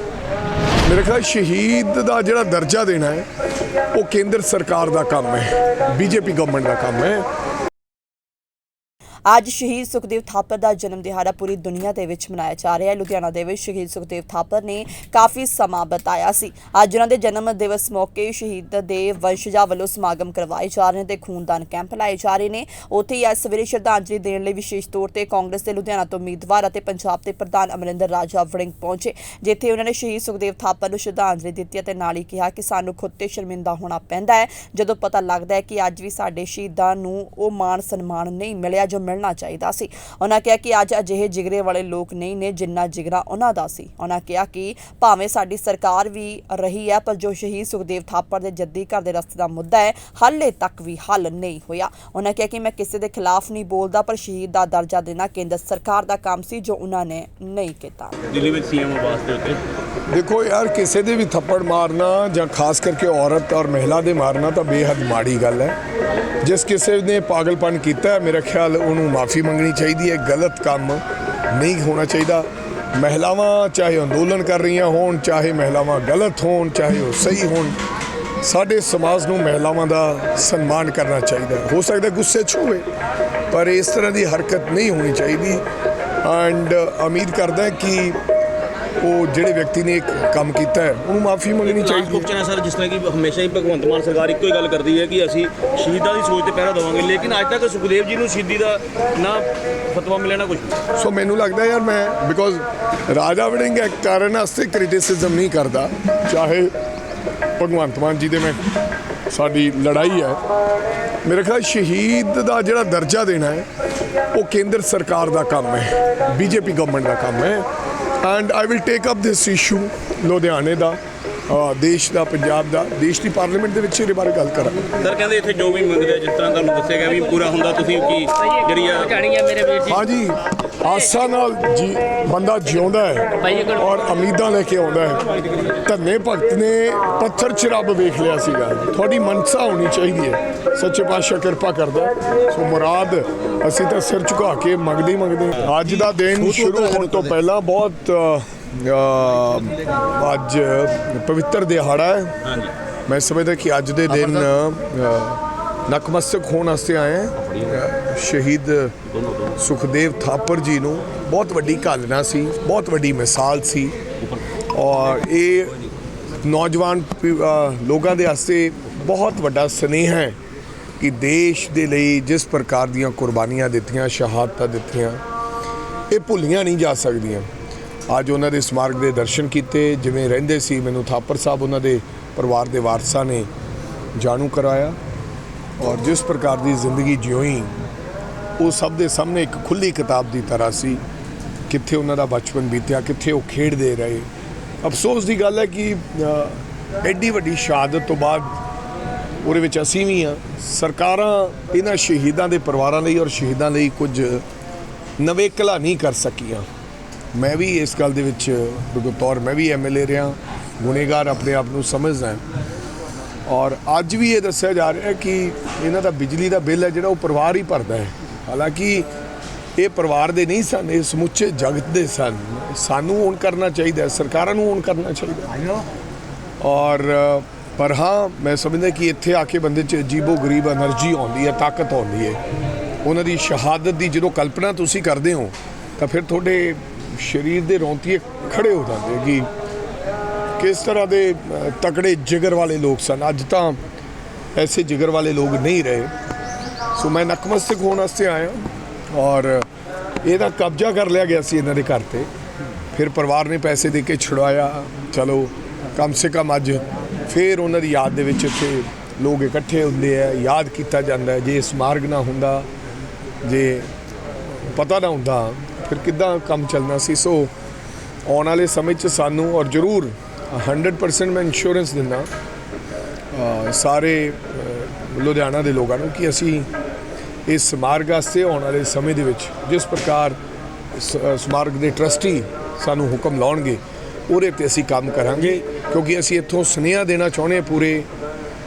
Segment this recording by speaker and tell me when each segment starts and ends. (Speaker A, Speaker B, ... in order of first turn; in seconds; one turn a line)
Speaker A: 0.8-3.3
Speaker A: 3.9-7.3
Speaker B: 9.3-58.3
Speaker C: 58.3-59.6
Speaker A: 60.1-65.8
Speaker A: 66.4-77.8
Speaker A: 78.4-82.9
Speaker A: 83.5-85.6
Speaker A: 86.2-88.2
Speaker A: 89.0-92.3
Speaker C: 91.6-100.8
Speaker A: 101.0-106.7
Speaker A: 107.6-108.6
Speaker A: 109.3-110.4
Speaker A: 111.2-113.7
Speaker A: 114.3-117.7
Speaker A: 118.2-124.9
Speaker C: 125.0-130.0
Speaker A: 129.8-135.2
Speaker A: 135.8-152.4
Speaker C: 152.5-152.7
Speaker A: 153.1-159.0
Speaker C: 159.1-159.6
Speaker A: 159.6-164.0
Speaker A: 164.7-165.8
Speaker A: 166.4-170.4
Speaker A: 171.0-175.2
Speaker A: 176.1-177.5
Speaker A: 178.1-183.5
Speaker A: 184.2-185.0
Speaker A: 185.8-187.8
Speaker A: 188.6-191.0
Speaker A: 191.7-194.3
Speaker A: 194.8-198.5
Speaker A: 199.4-204.4
Speaker A: 205.2-206.7
Speaker A: 207.3-212.4
Speaker A: 213.5-219.1
Speaker A: 219.8-225.7
Speaker A: 226.6-232.4
Speaker A: 233.0-239.5
Speaker A: 240.6-243.8
Speaker A: 244.6-246.1
Speaker A: 246.9-249.7
Speaker A: 250.2-252.3
Speaker A: 252.9-262.7
Speaker A: 263.4-263.9
Speaker A: 264.7-267.5
Speaker A: 268.3-272.3
Speaker A: 273.3-276.7
Speaker A: 277.5-280.4
Speaker A: 280.9-288.1